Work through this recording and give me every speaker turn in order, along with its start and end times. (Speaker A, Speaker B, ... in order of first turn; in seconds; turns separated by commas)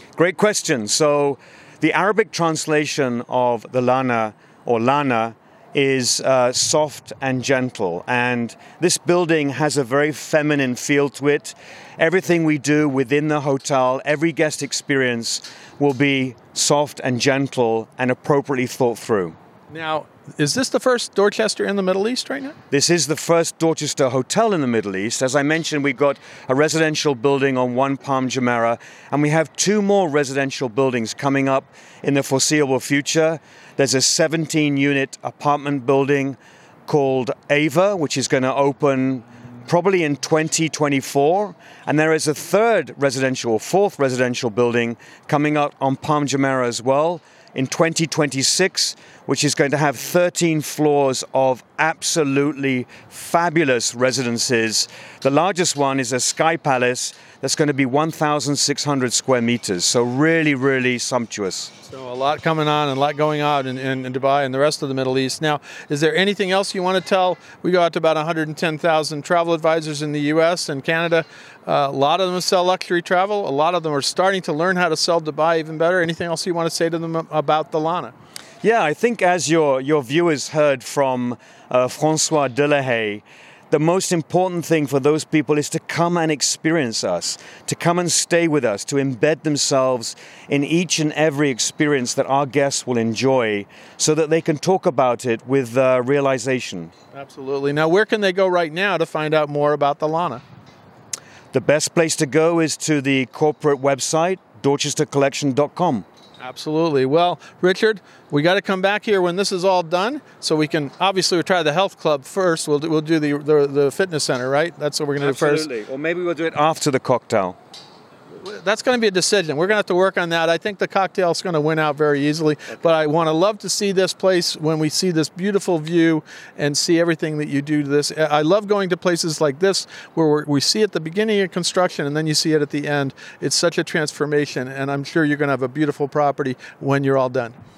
Speaker A: 0.2-19.3, Speaker B: 19.7-22.5, Speaker A: 22.7-61.7, Speaker B: 61.8-78.1, Speaker A: 78.6-96.9, Speaker B: 97.1-100.4, Speaker A: 101.5-106.0, Speaker B: 106.4-115.7, Speaker A: 115.2-117.6, Speaker B: 118.4-137.6